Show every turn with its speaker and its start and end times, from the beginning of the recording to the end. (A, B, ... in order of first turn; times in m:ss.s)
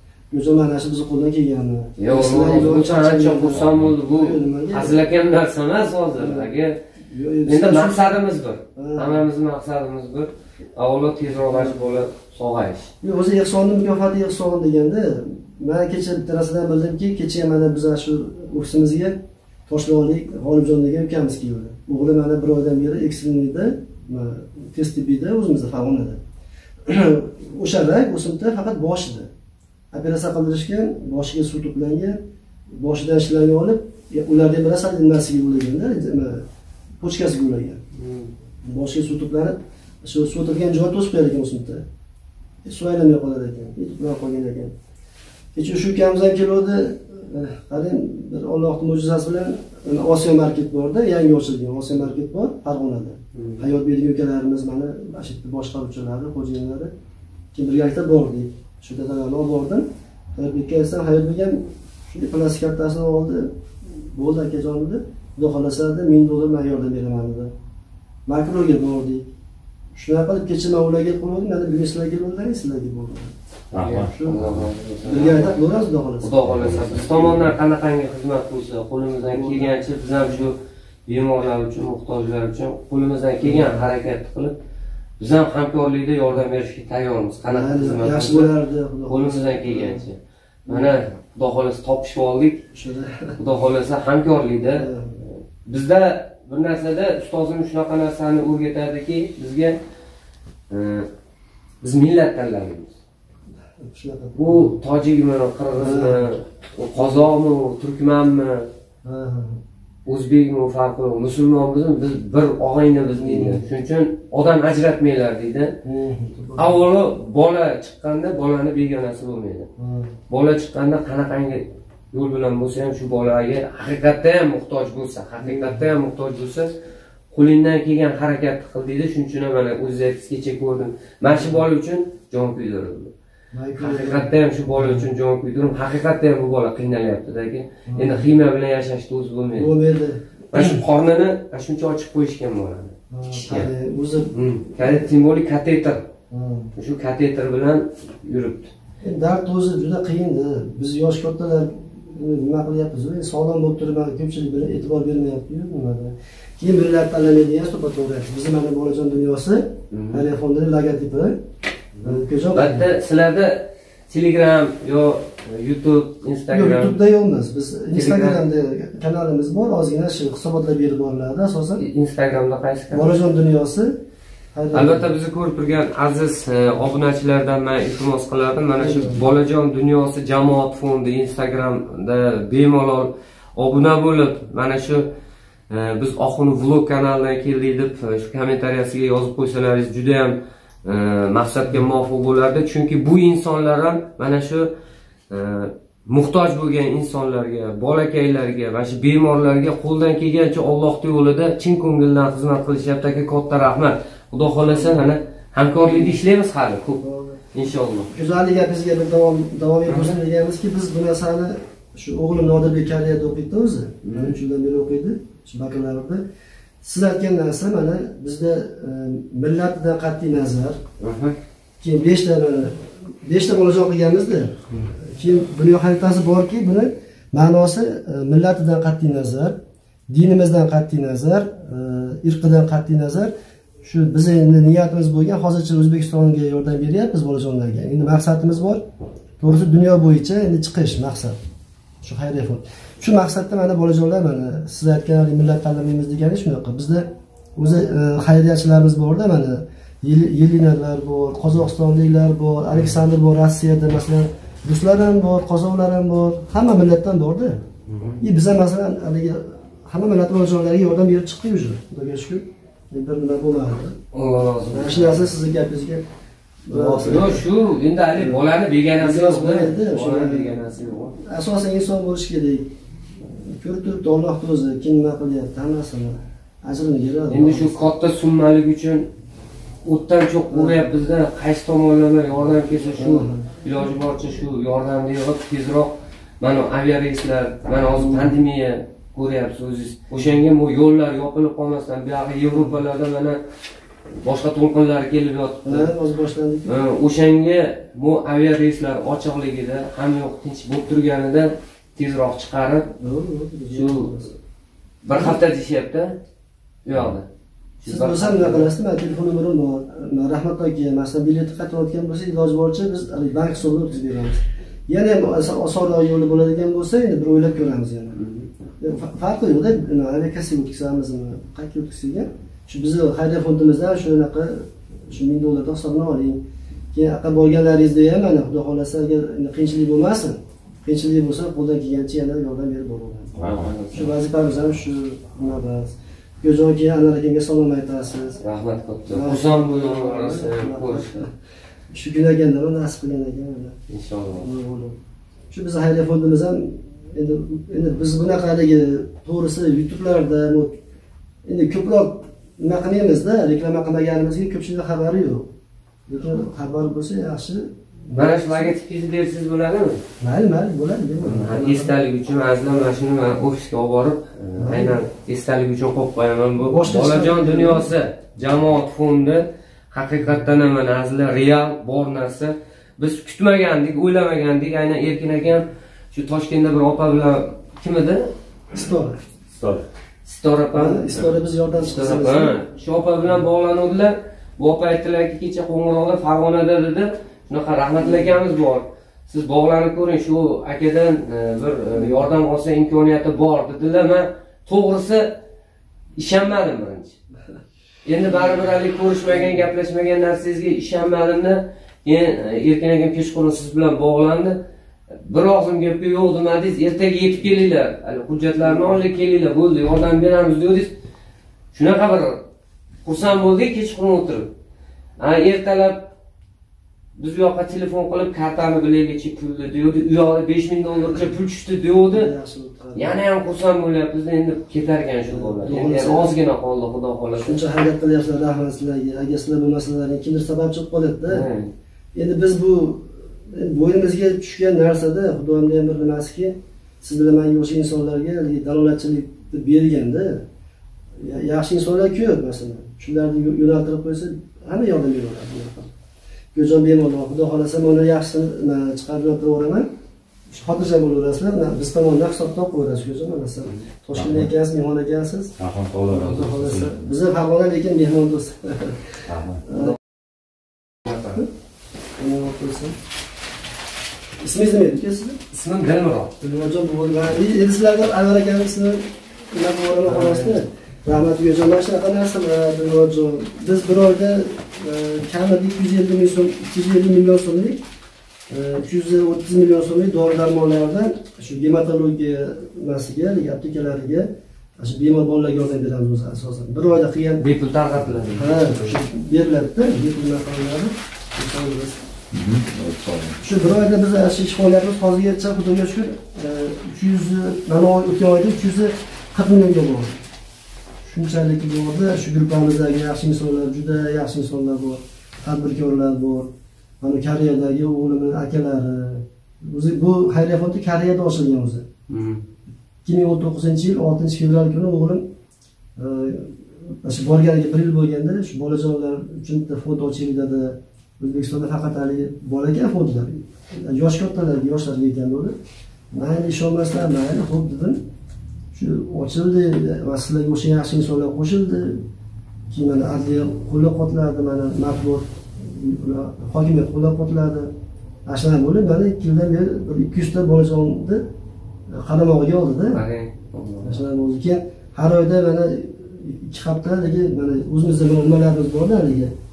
0:00.3-0:05.0 A
0:02.0-0:06.8 B
0:03.5-0:03.9 C
0:06.2-0:06.5 A
0:07.1-0:08.0 A
0:07.4-0:12.9 B
0:08.8-0:09.2 A
0:11.5-0:11.8 A
0:13.0-0:26.2 A
0:26.8-0:29.3 A
0:29.9-0:32.2 A
0:32.7-0:36.4 A
0:37.0-0:37.8 A
0:38.0-0:38.3 B
0:38.6-0:41.8 A
0:42.6-0:44.7 A
0:45.5-0:56.9 A
0:53.3-0:53.7 B
0:57.5-1:07.5 A
1:08.2-1:09.3 A
1:09.9-1:13.3 A
1:13.7-1:14.7 C
1:13.7-1:15.5 B
1:13.9-1:14.5 A
1:15.0-1:16.4 A
1:16.2-1:20.6 B
1:16.4-1:17.5 C
1:19.2-1:19.8 A
1:21.1-1:24.5 B
1:23.4-1:23.8 A
1:25.2-1:28.5 B
1:27.4-1:30.0 A
1:29.1-1:32.6 B
1:30.7-1:30.9 A
1:32.7-1:33.4 A
1:33.4-1:39.8 B
1:34.8-1:35.2 A
1:40.7-1:41.1 B
1:41.8-1:42.9 B
1:43.8-1:44.8 A
1:44.3-1:48.7 B
1:45.8-1:46.3 A
1:49.0-1:49.6 A
1:50.0-1:55.8 B
1:53.2-1:53.6 A
1:55.8-1:56.8 A
1:56.6-1:59.7 B
1:59.8-2:00.1 A
2:00.3-2:06.7 B
2:05.4-2:05.9 A
2:07.3-2:13.1 B
2:13.5-2:15.0 A
2:13.8-2:19.7 B
2:17.9-2:18.3 A
2:19.5-2:20.8 A
2:20.5-2:23.7 B
2:23.1-2:25.0 A
2:24.3-2:26.0 B
2:26.3-2:26.7 A
2:26.7-2:28.7 B
2:29.0-2:41.4 A
2:39.9-2:40.2 B
2:42.0-2:47.0 B
2:42.0-2:42.8 A
2:46.5-2:51.8 A
2:47.9-2:48.4 B
2:51.8-2:53.1 B
2:52.9-2:53.9 A
2:54.5-2:55.1 A
2:54.7-3:05.1 B
2:58.8-2:59.2 A
3:05.7-3:14.7 B
3:15.3-3:27.0 B
3:24.7-3:25.0 A
3:25.8-3:26.2 A
3:27.0-3:27.4 A
3:27.5-3:28.1 B
3:28.1-3:36.2 A
3:29.9-3:30.1 B
3:34.0-3:34.3 B
3:36.8-3:40.8 A
3:41.0-3:41.4 B
3:41.8-3:49.6 A
3:50.1-3:58.8 A
3:59.4-4:01.4 A
4:02.0-4:17.6 A
4:17.9-4:18.2 B
4:18.2-4:24.0 A
4:24.1-4:25.2 B
4:24.7-4:26.0 A
4:26.6-4:27.4 A
4:26.7-4:31.2 B
4:29.0-4:30.6 A
4:31.2-4:37.8 A
4:37.3-4:39.1 B
4:39.8-4:53.4 B
4:40.5-4:40.9 A
4:43.0-4:43.5 A
4:48.0-4:48.3 A
4:54.1-4:55.9 B
4:55.6-4:56.7 A
4:56.6-5:02.9 B
5:03.0-5:04.4 A
5:03.7-5:04.1 B
5:05.0-5:06.2 B
5:05.1-5:05.4 A
5:06.8-5:07.2 B
5:07.8-5:08.7 B
5:07.8-5:18.2 A
5:18.2-5:18.5 B
5:18.8-5:26.4 A
5:26.9-5:33.4 A
5:33.4-5:33.7 C
5:33.4-5:34.1 B
5:33.9-5:38.4 A
5:38.4-5:41.1 B
5:39.1-5:41.3 A
5:41.9-5:43.8 A
5:43.9-5:44.5 B
5:44.3-5:45.0 A
5:45.5-5:50.8 A
5:51.4-5:55.5 A
5:56.1-5:58.7 A
5:58.1-6:00.0 B
6:00.2-6:02.0 A
6:01.2-6:18.3 B
6:04.6-6:05.0 A
6:06.6-6:07.9 A
6:18.7-6:19.2 A
6:19.5-6:19.8 C
6:20.2-6:21.2 B
6:20.7-6:22.6 A
6:21.9-6:35.4 B
6:36.2-6:37.1 B
6:38.0-6:44.6 B
6:45.1-6:50.9 B
6:51.7-6:52.4 B
6:53.0-6:54.5 B
6:55.2-6:56.1 B
6:57.2-7:02.3 B
7:02.1-7:03.2 A
7:03.0-7:07.6 B
7:05.3-7:06.3 A
7:07.4-7:11.5 A
7:11.3-7:11.7 B
7:12.1-7:20.4 A
7:21.2-7:25.9 A
7:26.5-7:29.9 A
7:30.5-7:35.6 A
7:34.1-7:34.5 C
7:35.6-7:37.1 C
7:36.1-7:39.1 A
7:39.3-7:39.6 C
7:39.6-7:40.0 A
7:41.1-7:41.4 B
7:42.2-7:43.0 A
7:44.4-7:45.4 A
7:45.5-7:46.3 B
7:46.4-7:57.8 A
7:50.0-7:50.6 B
7:58.5-8:07.4 A
8:07.4-8:09.0 B
8:08.3-8:12.0 A
8:12.3-8:13.4 C
8:13.4-8:20.2 A
8:21.0-8:31.9 A
8:32.1-8:32.4 B
8:33.0-8:35.3 A
8:36.0-8:45.6 A
8:46.1-8:48.0 A
8:48.7-8:52.0 A
8:52.7-8:57.7 A
8:58.2-9:01.2 A
9:01.9-9:03.0 A
9:02.9-9:04.0 B
9:03.8-9:09.3 A